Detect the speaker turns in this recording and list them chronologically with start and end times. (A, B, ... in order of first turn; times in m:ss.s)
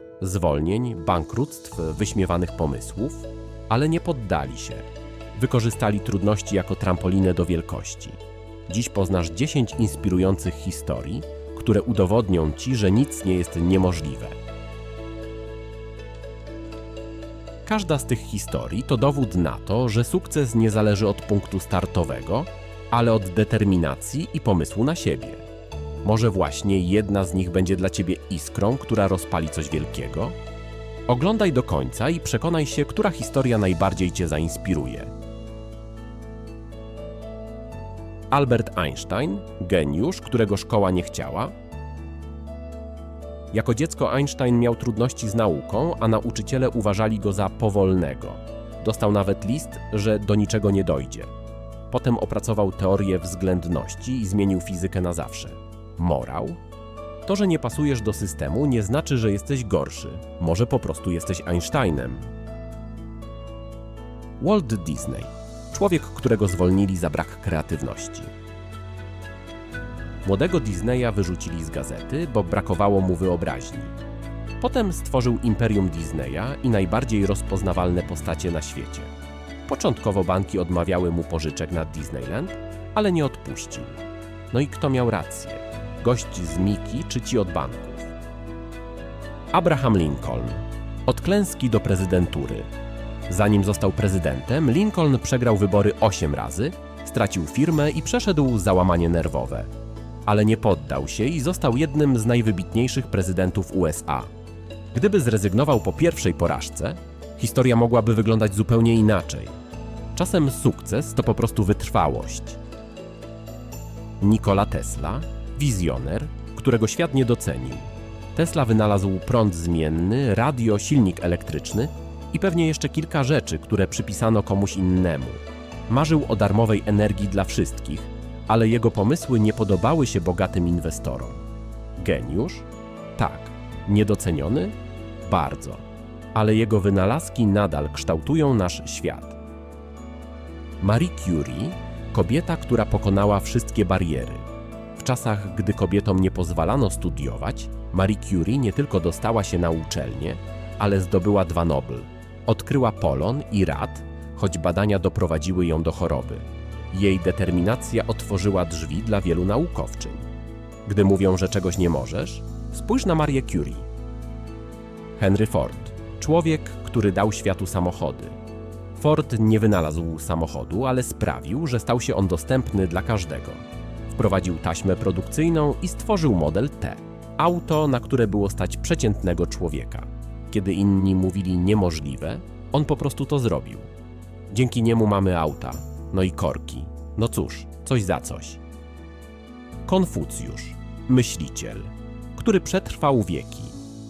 0:00.2-0:14.4 A
0:17.6-0:25.4 A
0:26.0-0:30.4 A
0:31.1-0:35.1 A
0:38.3-0:41.5 A
0:43.5-0:51.3 A
0:51.9-0:56.6 A
0:57.2-1:02.3 A
1:04.4-1:08.3 A
1:10.2-1:13.9 A
1:14.6-1:19.1 A
1:19.6-1:24.0 A
1:24.5-1:28.1 A
1:29.5-1:32.7 A
1:33.3-1:39.7 A
1:40.2-1:44.3 A
1:44.9-1:49.6 A
1:50.1-1:52.6 A
1:54.2-2:11.4 A
2:12.0-2:19.4 A
2:20.8-2:40.3 A
2:40.8-2:43.9 A
2:45.2-2:48.4 A
2:48.9-3:03.9 A
3:04.5-3:08.6 A
3:09.8-3:13.8 A